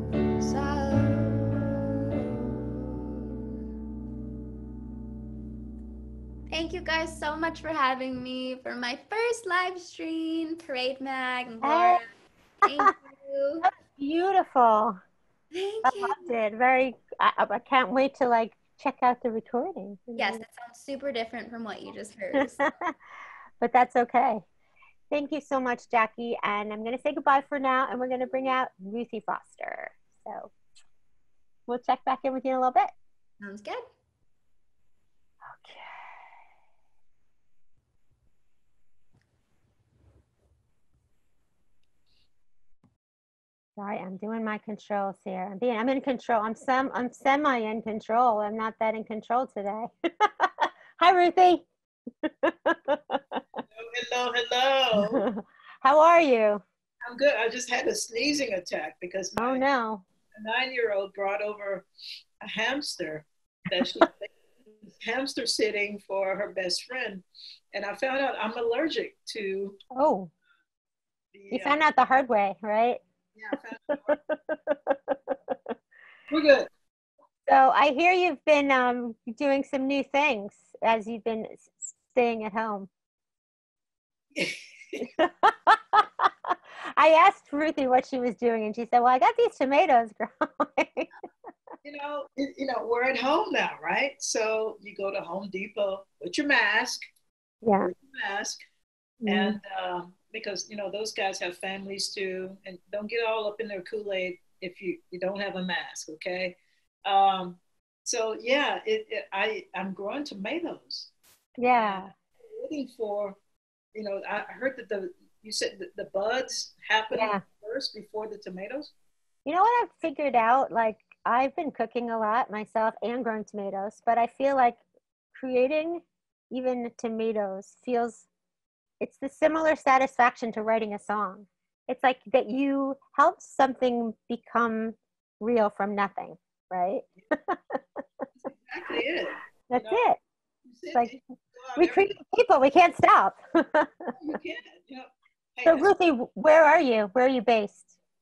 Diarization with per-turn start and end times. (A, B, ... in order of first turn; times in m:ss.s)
0:00.4-0:03.0 A
0:06.5-0:12.0 A
0:11.6-0:12.0 B
0:12.6-0:13.7 A
0:13.6-0:15.0 B
0:15.5-0:16.3 A
0:15.8-0:20.4 B
0:20.2-0:22.6 A
0:22.4-0:23.0 B
0:23.6-0:24.5 B
0:25.1-0:30.5 B
0:31.7-0:32.9 B
0:33.4-0:33.8 A
0:35.5-0:36.0 B
0:43.8-0:51.7 B
0:52.2-0:53.4 B
0:53.7-0:55.2 C
0:54.9-0:56.6 B
0:57.0-0:59.6 C
0:59.4-1:00.1 B
1:00.3-1:01.9 C
1:02.4-1:04.3 C
1:04.9-1:09.8 C
1:09.9-1:10.3 B
1:11.3-1:11.8 C
1:11.5-1:13.0 B
1:13.4-1:14.2 C
1:14.1-1:15.6 B
1:16.3-1:16.7 C
1:17.5-1:22.9 B
1:24.3-1:25.1 C
1:25.0-1:31.1 B
1:31.8-1:37.0 C
1:37.6-1:37.9 B
1:37.8-1:38.6 C
1:39.2-1:39.6 B
1:39.3-1:51.1 C
1:51.6-1:52.1 B
1:51.7-1:53.4 C
1:53.9-1:58.9 C
1:57.1-1:57.4 B
1:59.5-2:04.8 B
2:05.3-2:08.3 B
2:09.0-2:17.8 B
2:18.4-2:20.0 C
2:19.7-2:20.2 B
2:20.7-2:22.2 C
2:21.8-2:24.1 B
2:24.2-2:25.9 C
2:25.6-2:27.9 B